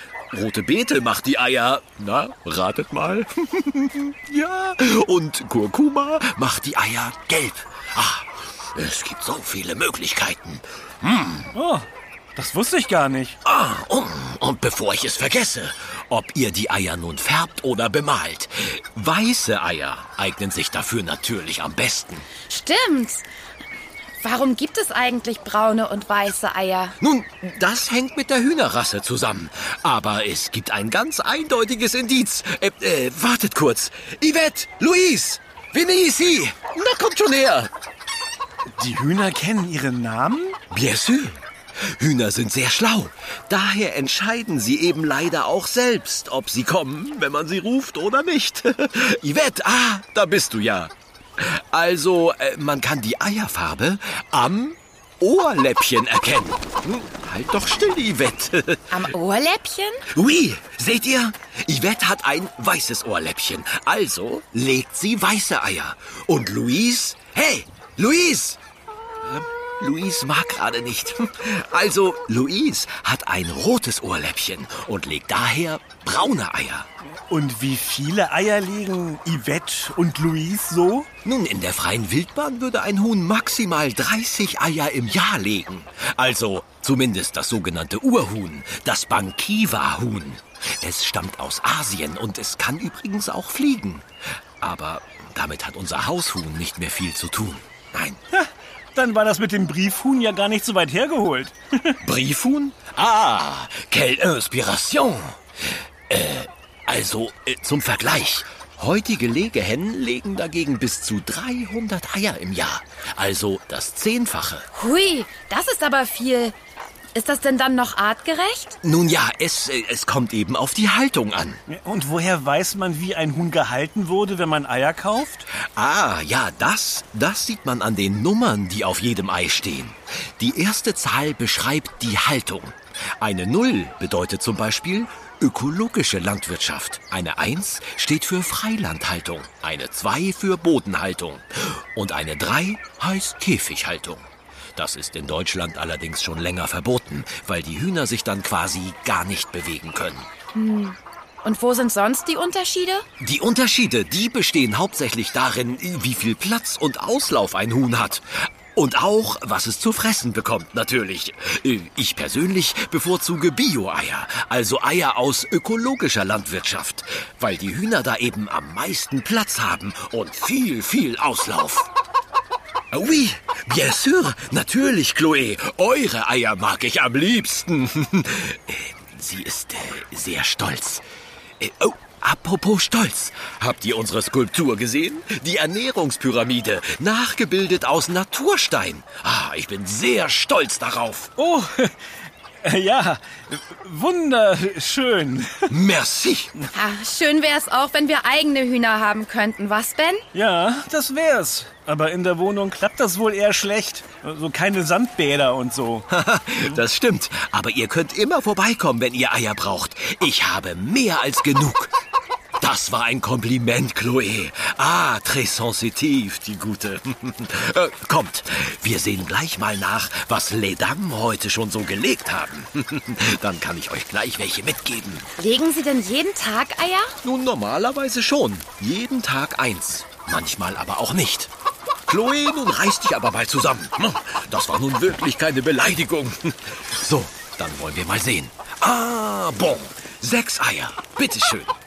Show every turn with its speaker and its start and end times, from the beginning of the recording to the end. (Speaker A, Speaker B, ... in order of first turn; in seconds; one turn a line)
Speaker A: 0.3-11.5
Speaker B: 11.5-13.4
Speaker A: 13.4-22.2
Speaker C: 22.5-23.2
Speaker C: 24.2-26.9
Speaker A: 27.0-37.7
Speaker B: 38.8-40.6
Speaker A: 40.7-58.9
Speaker C: 58.9-60.0
Speaker A: 60.1-68.6
Speaker A: 69.2-76.9
Speaker B: 77.3-81.1
Speaker A: 81.2-94.0
Speaker A: 94.6-98.2
Speaker B: 98.3-102.0
Speaker A: 102.0-105.3
Speaker A: 106.1-114.7
Speaker C: 114.7-116.5
Speaker C: 117.1-118.8
Speaker A: 118.8-121.6
Speaker B: 121.7-125.5
Speaker A: 125.5-150.3
Speaker C: 150.5-153.0
Speaker A: 153.2-171.9
Speaker A: 172.9-181.0
Speaker A: 181.6-191.3
Speaker B: 191.4-191.9
Speaker B: 192.6-195.8
Speaker A: 195.7-196.5
Speaker C: 196.7-200.2
Speaker B: 200.3-206.1
Speaker A: 206.1-211.9
Speaker A: 212.6-225.3
Speaker C: 225.4-227.1
Speaker A: 227.2-231.5
Speaker A: 232.1-241.7